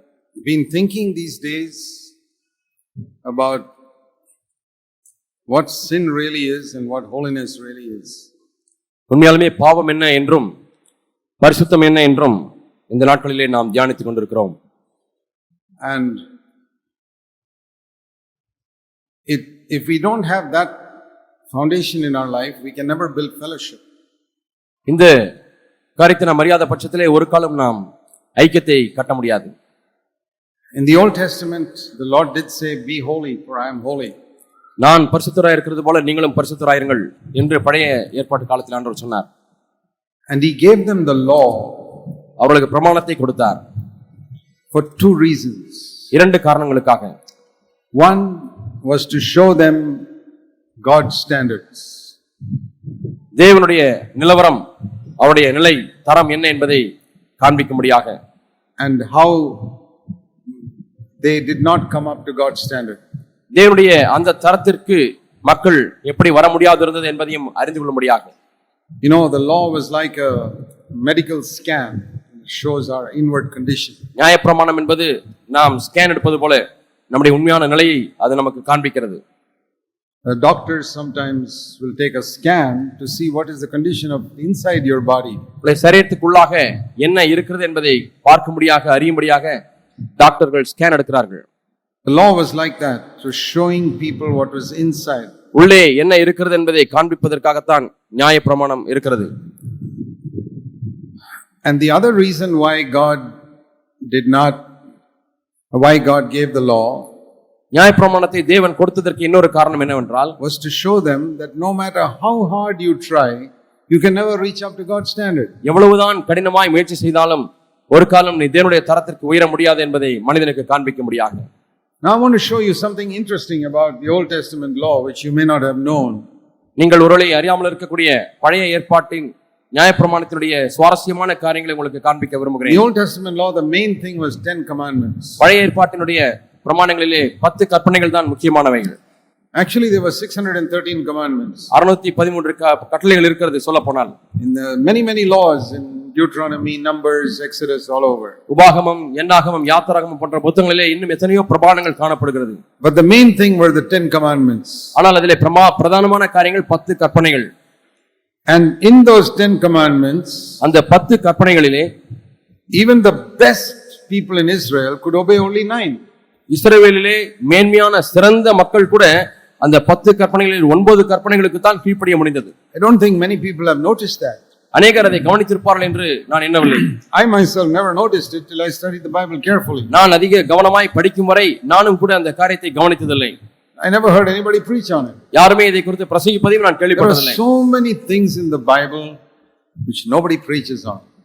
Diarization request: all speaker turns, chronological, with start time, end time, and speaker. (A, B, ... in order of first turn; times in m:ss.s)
0:00.4-0:02.1 A
0:03.2-0:03.7 A
0:05.5-0:08.3 A
0:09.1-0:10.5 B
0:11.4-0:14.6 B
0:15.8-0:16.2 A
0:19.3-0:20.8 A
0:21.5-0:23.8 A
0:24.9-0:25.1 B
0:26.0-0:27.8 B
0:28.4-0:29.5 B
0:30.7-0:34.2 A
0:34.8-0:39.3 B
0:40.3-0:42.0 A
0:42.4-0:43.6 B
0:44.7-0:46.0 A
0:46.1-0:47.1 B
0:48.0-0:50.0 A
0:50.8-0:52.1 A
0:53.4-0:54.6 B
0:55.2-0:56.9 B
0:57.4-0:58.1 B
0:58.8-0:59.8 A
1:01.2-1:03.0 A
1:03.5-1:08.3 B
1:09.0-1:14.0 A
1:14.2-1:19.2 B
1:20.3-1:25.4 A
1:25.6-1:29.5 B
1:30.2-1:31.4 B
1:32.0-1:35.3 A
1:35.5-1:39.3 B
1:41.6-1:43.3 A
1:44.1-1:44.6 A
1:45.7-1:47.1 A
1:47.7-1:50.4 B
1:50.4-1:55.5 A
1:55.6-2:01.4 B
2:02.0-2:06.2 A
2:06.8-2:12.9 B
2:12.7-2:15.4 A
2:15.4-2:19.0 B
2:19.5-2:21.7 A
2:21.7-2:24.2 B
2:24.4-2:28.4 A
2:28.5-2:32.6 B
2:32.8-2:34.9 A
2:35.0-2:37.5 B
2:38.5-2:40.6 A
2:40.6-2:41.9 B
2:42.7-2:46.0 A
2:46.5-2:52.5 B
2:52.7-2:54.4 A
2:54.7-2:57.0 B
2:57.1-2:59.9 A
2:59.9-3:03.4 B
3:03.8-3:05.2 A
3:05.3-3:07.4 B
3:07.0-3:09.2 A
3:09.9-3:11.0 A